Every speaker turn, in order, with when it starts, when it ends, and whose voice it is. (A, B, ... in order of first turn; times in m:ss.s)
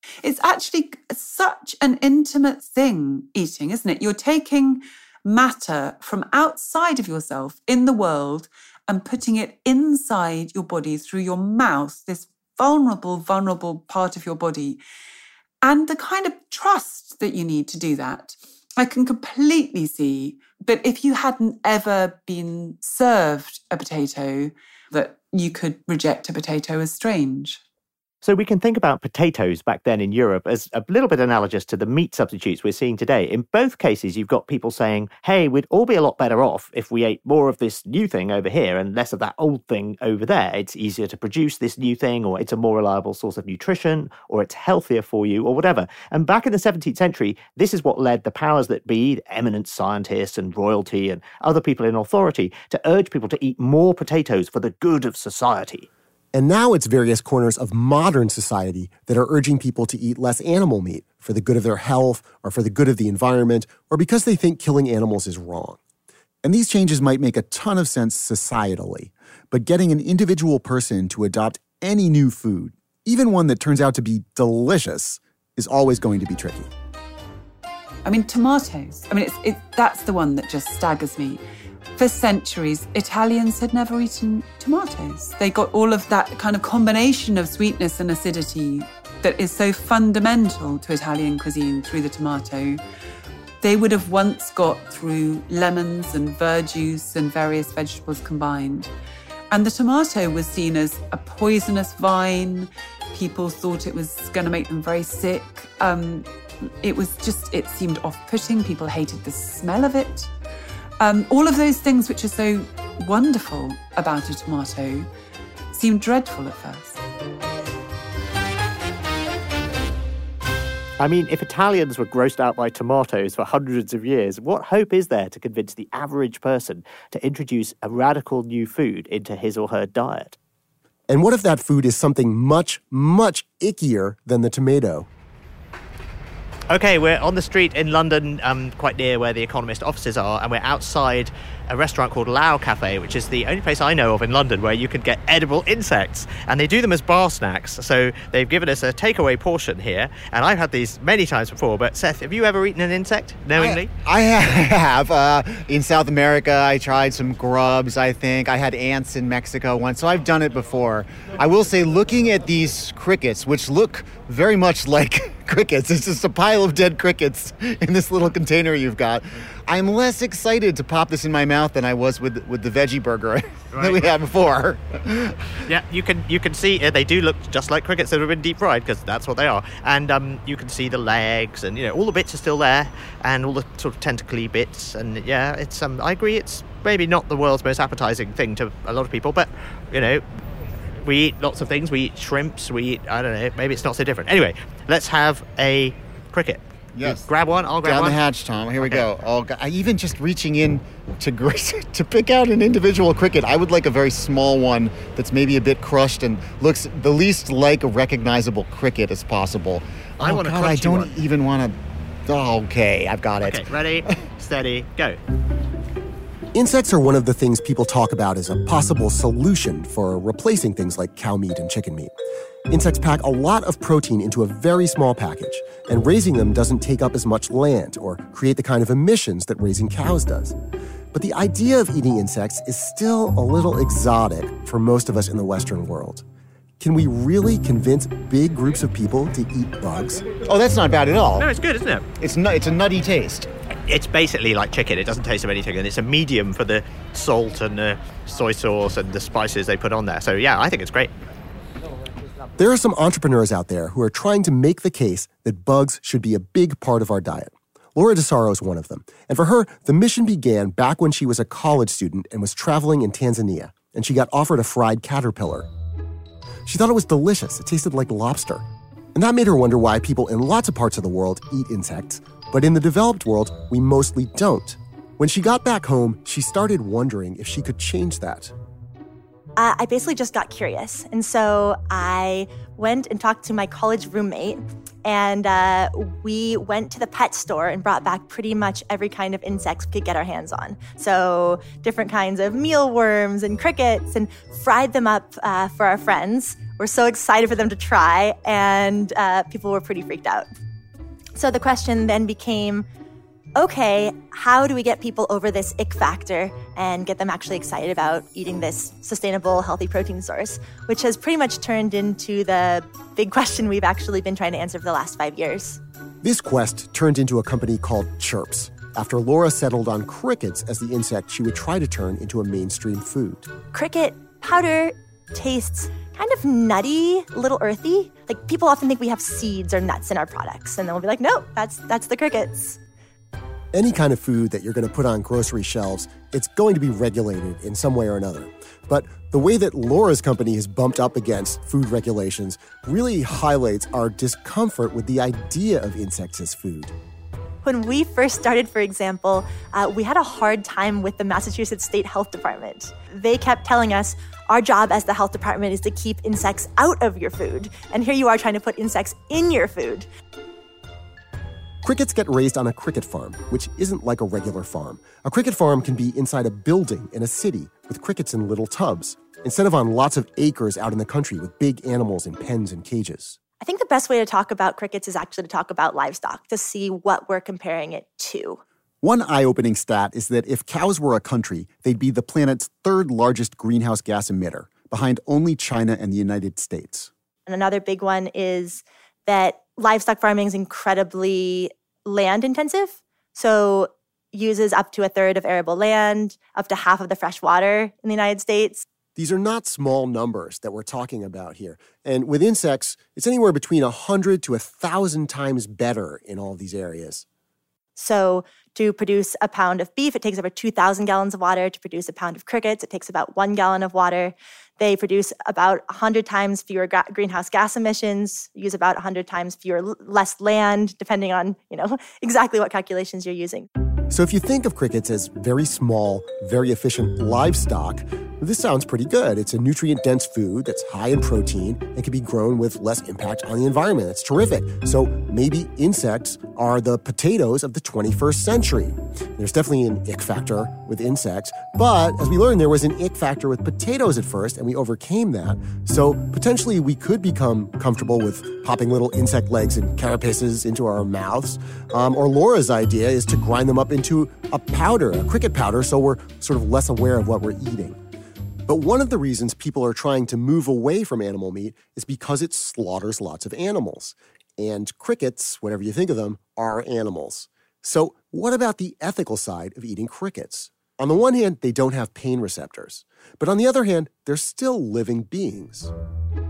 0:00.2-0:14.8 A
0:15.6-0:27.6 A
0:28.2-0:55.9 B
0:56.3-1:05.8 C
1:06.4-1:16.7 D
1:18.0-1:21.4 A
1:22.0-1:32.8 A
1:33.6-1:38.9 A
1:39.5-1:46.3 A
1:46.8-1:50.3 A
1:51.0-1:55.1 A
1:55.7-1:57.0 A
2:01.0-2:10.4 B
2:11.1-2:15.1 C
2:16.7-2:33.9 B
2:33.6-2:55.4 D
2:53.7-2:54.1 B
2:55.6-3:10.2 B
3:11.0-3:18.2 B
3:17.0-3:17.2 D
3:17.8-3:34.1 D
3:30.2-3:31.2 B
3:33.4-3:35.2 B
3:36.5-3:42.1 C
3:42.7-3:50.6 C
3:51.1-3:56.2 C
3:56.8-4:00.2 C
4:00.4-4:01.5 D
4:01.4-4:02.1 B
4:02.2-4:03.5 D
4:03.9-4:11.1 B
4:12.6-4:25.7 C
4:26.7-4:38.5 C
4:39.6-5:00.5 E
5:01.4-5:02.9 E
5:03.6-5:15.8 E
5:16.2-5:23.5 C
5:23.7-5:32.8 E
5:33.7-5:46.9 C
5:47.6-6:00.1 E
6:01.8-6:13.4 C
6:13.6-6:18.6 E
6:19.0-6:27.1 D
6:27.5-6:38.8 E
6:39.2-6:47.2 C
6:48.0-7:03.7 E
7:04.1-7:38.0 C
7:38.7-7:55.9 C